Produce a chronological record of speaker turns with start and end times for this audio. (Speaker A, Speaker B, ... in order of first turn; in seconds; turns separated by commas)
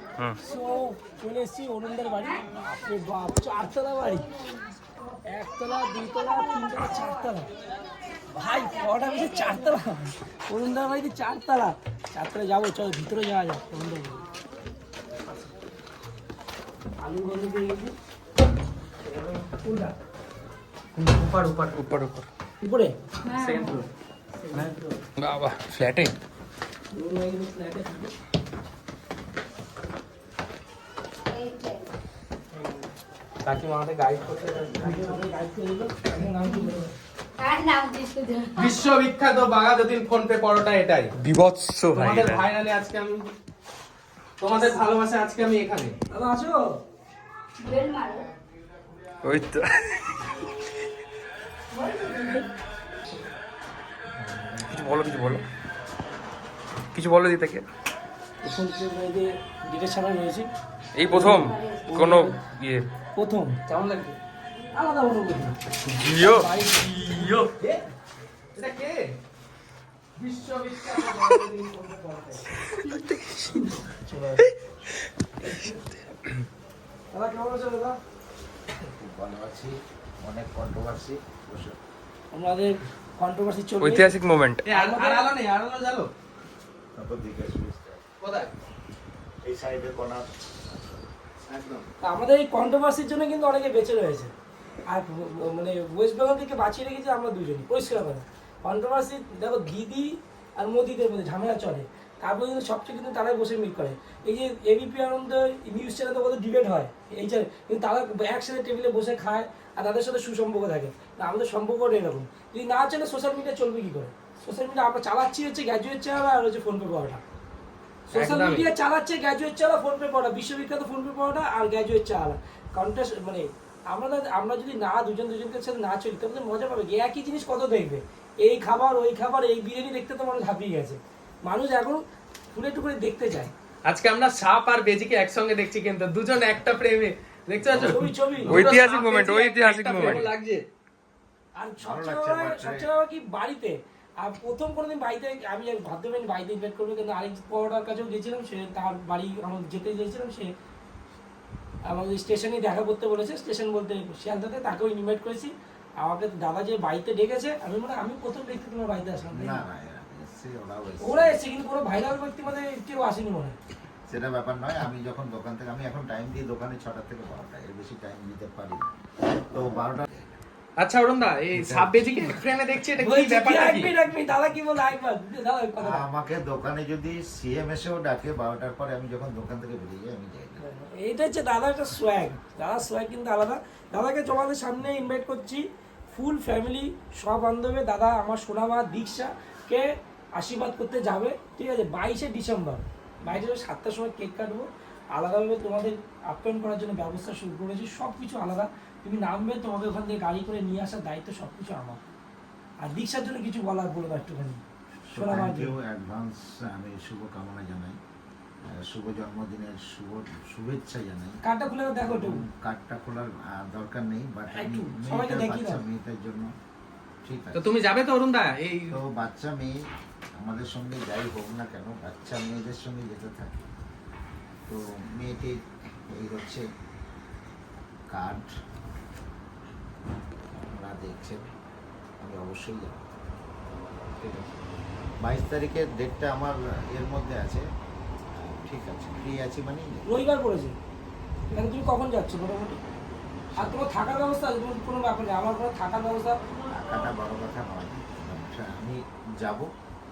Speaker A: 0.4-4.3, Speaker A: 5.3-7.5, Speaker A: 8.3-14.2, Speaker B: 9.0-9.3, Speaker A: 17.0-17.9, Speaker A: 19.4-19.9, Speaker C: 20.9-21.9, Speaker D: 21.8-22.2, Speaker A: 22.6-22.9, Speaker B: 23.2-23.8, Speaker C: 23.3-23.9, Speaker D: 24.6-26.1, Speaker A: 26.9-28.1, Speaker B: 31.2-31.9, Speaker C: 33.4-35.2, Speaker A: 34.8-36.9, Speaker B: 37.4-38.8, Speaker C: 38.5-41.1, Speaker D: 41.2-42.5, Speaker C: 41.9-43.3, Speaker C: 44.4-45.9, Speaker A: 46.1-46.6, Speaker B: 47.6-48.3, Speaker D: 49.2-50.3, Speaker B: 51.7-52.5, Speaker D: 54.6-55.4, Speaker D: 56.9-57.6, Speaker A: 58.4-60.5, Speaker D: 61.0-62.9, Speaker A: 61.1-61.5, Speaker B: 61.3-62.0, Speaker A: 63.1-63.6, Speaker C: 63.7-64.2, Speaker A: 64.7-65.5, Speaker D: 65.9-67.5, Speaker C: 66.2-67.8, Speaker C: 68.5-69.1, Speaker C: 70.2-72.5, Speaker D: 72.8-73.6, Speaker A: 73.9-74.5, Speaker A: 77.1-78.0, Speaker E: 78.9-81.8, Speaker A: 82.3-84.2, Speaker D: 83.8-84.6, Speaker C: 84.7-86.1, Speaker A: 84.7-85.3, Speaker E: 86.9-88.0, Speaker C: 88.2-88.5, Speaker E: 89.4-91.0, Speaker C: 91.5-91.8, Speaker A: 92.0-94.3, Speaker A: 94.9-117.2, Speaker A: 118.1-132.0, Speaker C: 118.1-118.7, Speaker A: 132.5-133.5, Speaker C: 133.8-140.6, Speaker E: 137.6-138.0, Speaker A: 137.8-138.9, Speaker D: 138.5-140.3, Speaker A: 141.6-150.5, Speaker E: 141.8-142.9, Speaker A: 151.8-159.6, Speaker E: 159.3-161.4, Speaker A: 161.0-163.6, Speaker E: 164.1-170.4, Speaker C: 170.8-173.9, Speaker E: 171.5-172.3, Speaker A: 173.0-176.0, Speaker E: 175.8-180.6, Speaker A: 180.6-189.8, Speaker A: 190.4-202.0, Speaker A: 202.8-204.6, Speaker E: 205.1-208.0, Speaker A: 205.1-205.7, Speaker E: 208.6-211.4, Speaker A: 211.4-212.4, Speaker E: 212.0-216.5, Speaker A: 214.5-215.8, Speaker E: 217.2-217.6, Speaker C: 217.5-219.0, Speaker E: 218.9-219.8, Speaker E: 220.4-223.7, Speaker E: 224.7-226.7, Speaker E: 228.1-228.5, Speaker E: 230.5-231.5, Speaker E: 232.2-233.2, Speaker E: 234.0-234.4, Speaker E: 235.2-237.6, Speaker E: 238.3-240.1, Speaker A: 240.1-240.7, Speaker A: 241.5-242.8, Speaker E: 243.6-244.1, Speaker A: 243.6-246.4, Speaker E: 246.7-249.7